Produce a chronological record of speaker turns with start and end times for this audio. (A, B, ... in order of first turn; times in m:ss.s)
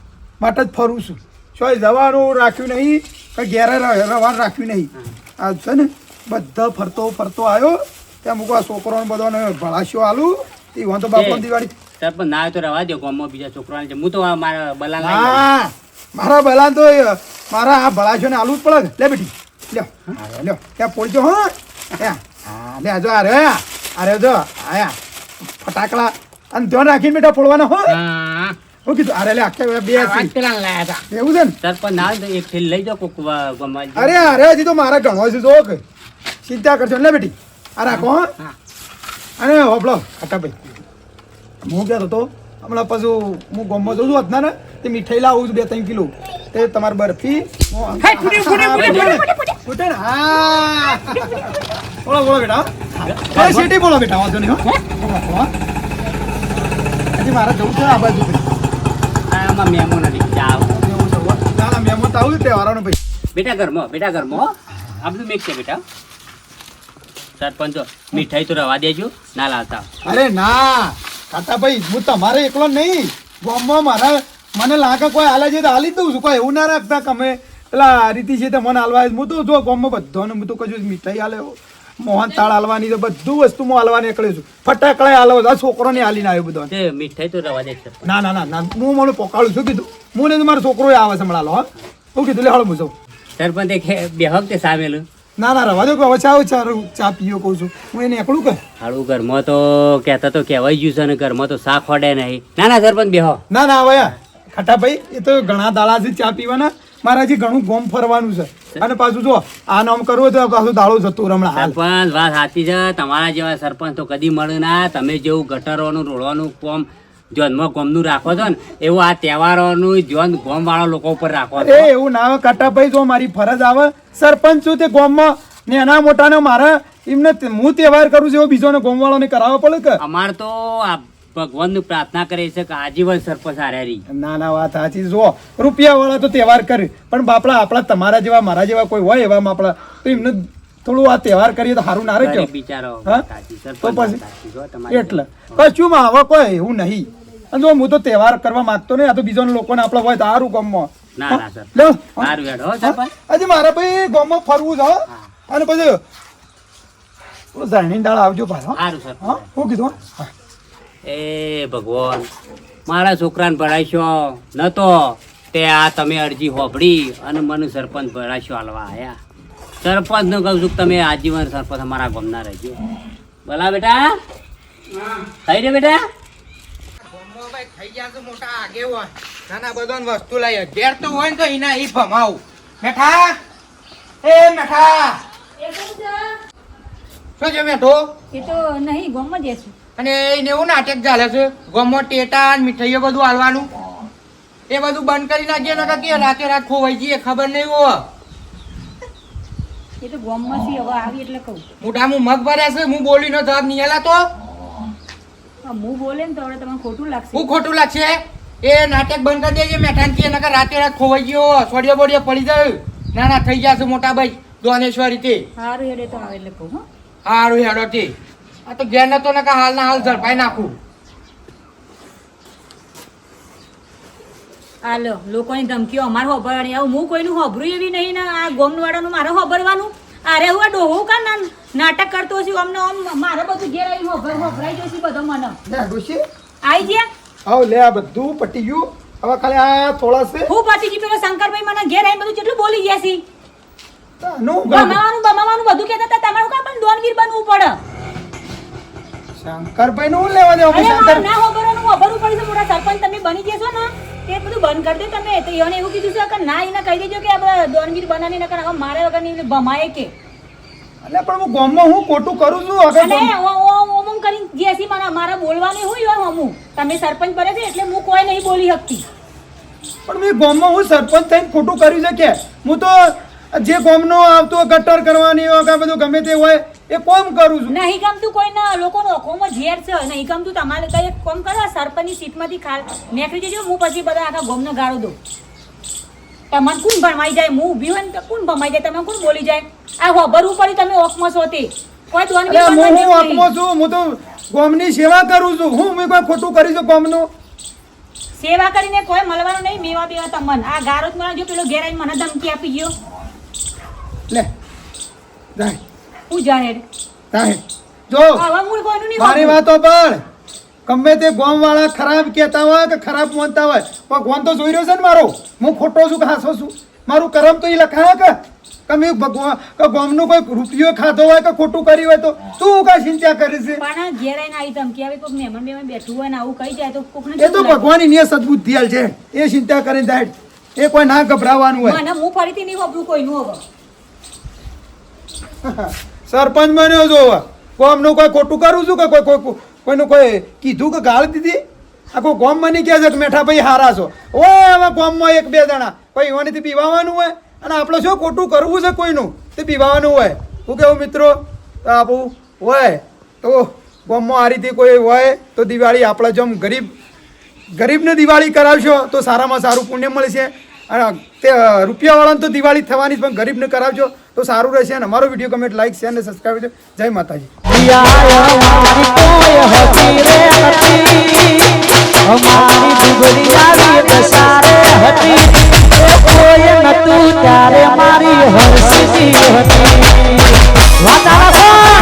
0:00.4-0:11.7 A
0:11.1-0:11.5 B
0:12.0-0:15.5 B
0:15.0-0:25.0 A
0:25.6-0:28.0 A
0:27.9-0:28.6 C
0:28.9-0:30.3 A
0:29.9-0:31.0 C
0:31.1-0:31.6 A
0:31.6-0:34.4 B
0:34.0-0:35.8 A
0:36.4-0:38.3 A
0:37.9-0:38.6 C
0:39.4-0:40.5 A
0:41.6-0:51.5 A
0:48.0-0:49.6 C
0:48.7-0:49.2 B
0:51.0-0:51.4 C
0:52.0-0:55.5 A
0:53.1-0:53.7 B
0:57.1-0:58.4 A
0:59.3-1:00.8 B
1:00.7-1:03.0 A
1:03.4-1:05.8 B
1:07.4-1:09.9 B
1:10.0-1:26.7 A
1:26.7-1:28.1 B
1:28.0-1:32.9 A
1:33.4-1:35.0 B
1:35.4-1:38.6 A
1:38.8-1:43.4 B
1:43.5-1:51.8 A
1:51.5-2:01.9 B
2:01.6-2:10.0 A
2:10.0-2:14.0 B
2:14.1-2:22.5 A
2:22.2-2:25.7 B
2:23.8-2:24.2 A
2:24.9-2:36.0 A
2:31.2-2:33.1 B
2:37.5-2:40.3 A
2:38.7-2:39.5 B
2:41.0-2:42.2 B
2:42.9-2:49.2 B
2:49.8-2:52.8 B
2:53.5-2:54.1 B
2:55.0-2:55.2 C
2:55.4-2:56.0 B
2:57.0-3:03.4 D
3:04.2-3:05.2 D
3:05.6-3:06.3 E
3:07.4-3:08.1 D
3:08.3-3:09.7 E
3:10.0-3:13.7 D
3:14.7-3:18.0 D
3:20.0-3:21.6 E
3:21.8-3:24.2 D
3:25.6-3:27.5 E
3:27.3-3:35.4 D
3:35.6-3:36.8 E
3:37.2-3:38.2 D
3:38.7-3:40.8 D
3:44.8-3:55.6 E
3:55.7-3:56.2 A
3:56.6-3:57.1 E
3:57.5-4:00.5 A
4:00.5-4:03.2 E
4:04.2-4:05.0 A
4:04.7-4:07.8 E
4:09.4-4:11.2 A
4:10.7-4:20.1 E
4:21.0-4:23.3 A
4:23.0-4:29.0 E
4:30.1-4:37.7 A
4:37.7-4:45.2 E
4:46.5-4:53.5 E
4:52.5-4:57.3 A
4:58.4-5:02.9 E
5:06.3-5:06.8 E
5:07.3-5:08.4 A
5:08.4-5:09.6 E
5:09.2-5:10.2 A
5:10.9-5:18.4 A
5:18.9-5:23.8 A
5:23.8-5:27.9 E
5:27.4-5:32.0 A
5:31.8-5:33.6 E
5:35.6-5:57.0 A
5:57.7-6:07.5 A
6:07.8-6:11.4 F
6:12.4-6:15.4 F
6:16.2-6:20.0 F